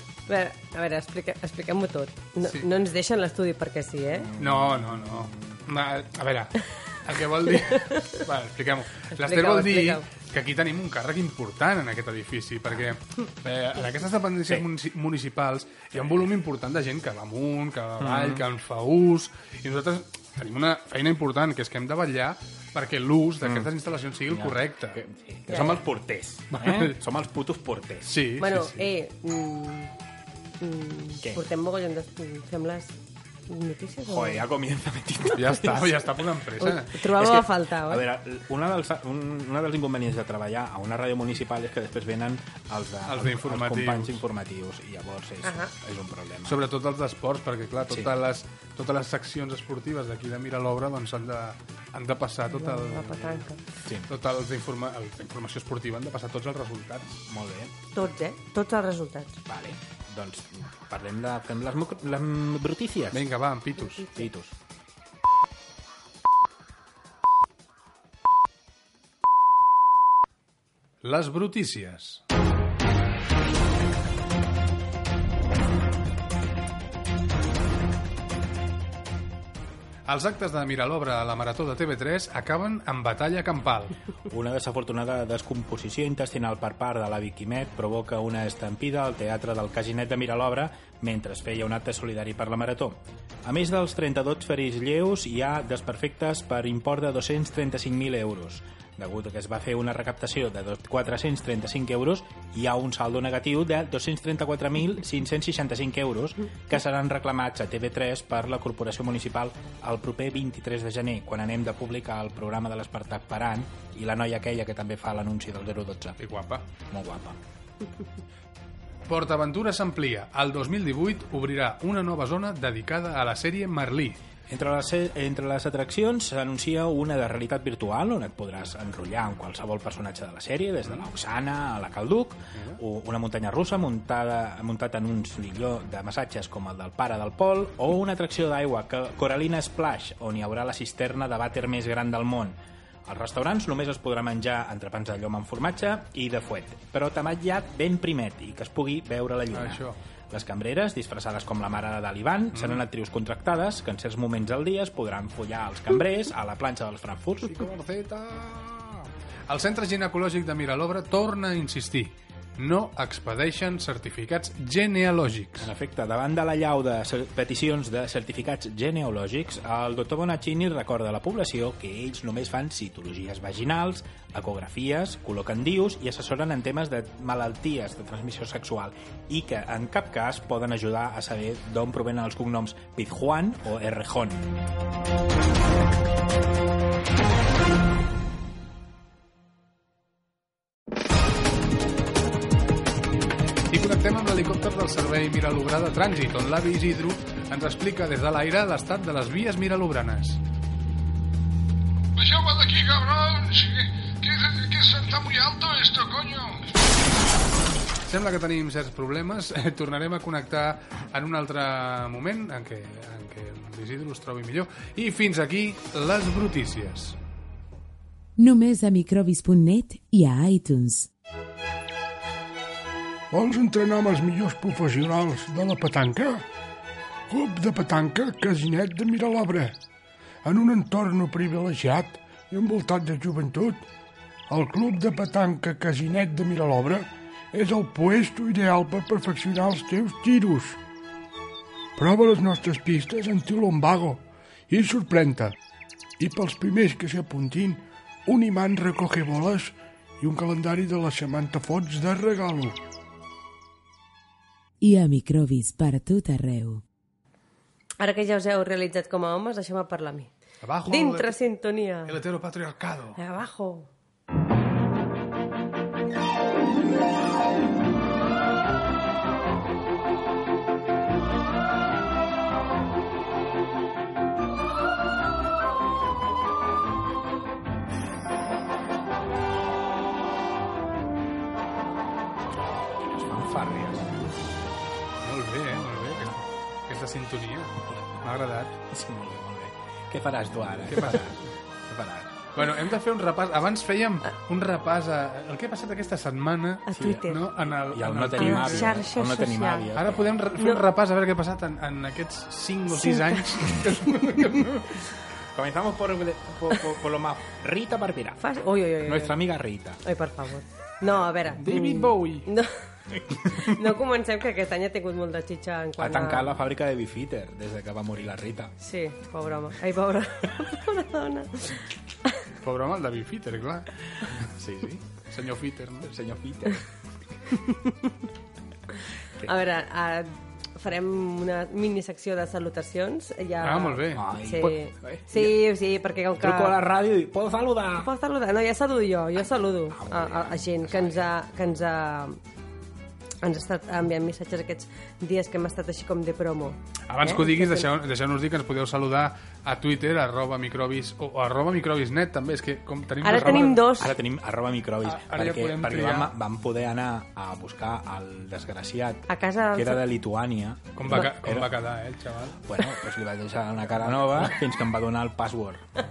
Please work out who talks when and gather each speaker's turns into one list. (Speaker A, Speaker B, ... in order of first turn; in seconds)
Speaker A: 0.3-4.3, 9.1-10.0, 25.5-25.8, 28.4-29.9, 30.6-33.0, 33.5-34.4, 36.6-38.0, 45.4-45.7, 52.5-53.6, 57.9-59.4, 63.8-64.3, 258.0-260.3, 260.8-262.1, 263.1-263.9, 296.9-297.4, 298.4-299.9, 302.9-303.4, 308.4-309.4, 310.0-312.7, 313.6-316.6, 318.8-321.7, 329.4-336.8, 338.0-342.4, 343.4-347.9, 353.2-354.2, 359.3-360.0
Speaker B: 4.1-5.6, 15.9-16.3, 18.0-18.4, 23.4-23.7, 24.3-28.2, 34.1-36.1, 37.0-46.6, 47.8-48.1, 53.8-54.1, 57.3-57.7, 59.5-63.3, 64.1-64.5, 84.3-116.2, 116.9-117.4, 124.5-157.7, 165.6-184.5, 282.6-284.1, 288.9-292.4, 296.9-300.4, 305.5-308.4, 309.0-310.0, 316.0-318.7, 324.4-325.0, 326.0-326.8, 334.1-335.6, 336.4-338.1, 339.9-341.3, 354.0-361.7, 362.6-365.8
Speaker C: 4.4-25.0, 26.5-27.0, 28.1-28.8, 35.3-37.0, 43.0-44.2, 46.5-53.5, 54.1-57.2, 63.1-64.1, 71.0-72.2, 80.1-83.9, 116.2-116.6, 119.1-124.2, 149.5-150.0, 152.5-152.8, 157.5-165.7, 193.7-200.4, 202.2-206.6, 208.1-217.2, 260.6-261.4, 262.1-263.2, 285.2-288.7, 290.9-291.4, 292.5-298.9, 299.9-305.0, 311.6-312.4, 322.6-323.9, 325.3-326.1, 333.6-334.3, 347.1-353.9, 355.0-356.3, 361.0-362.6, 364.2-364.5
Speaker D: 218.4-221.1, 254.8-256.8
Speaker E: 223.3-226.4, 227.3-229.8, 230.4-233.8, 234.5-240.8, 242.0-245.5, 246.2-252.7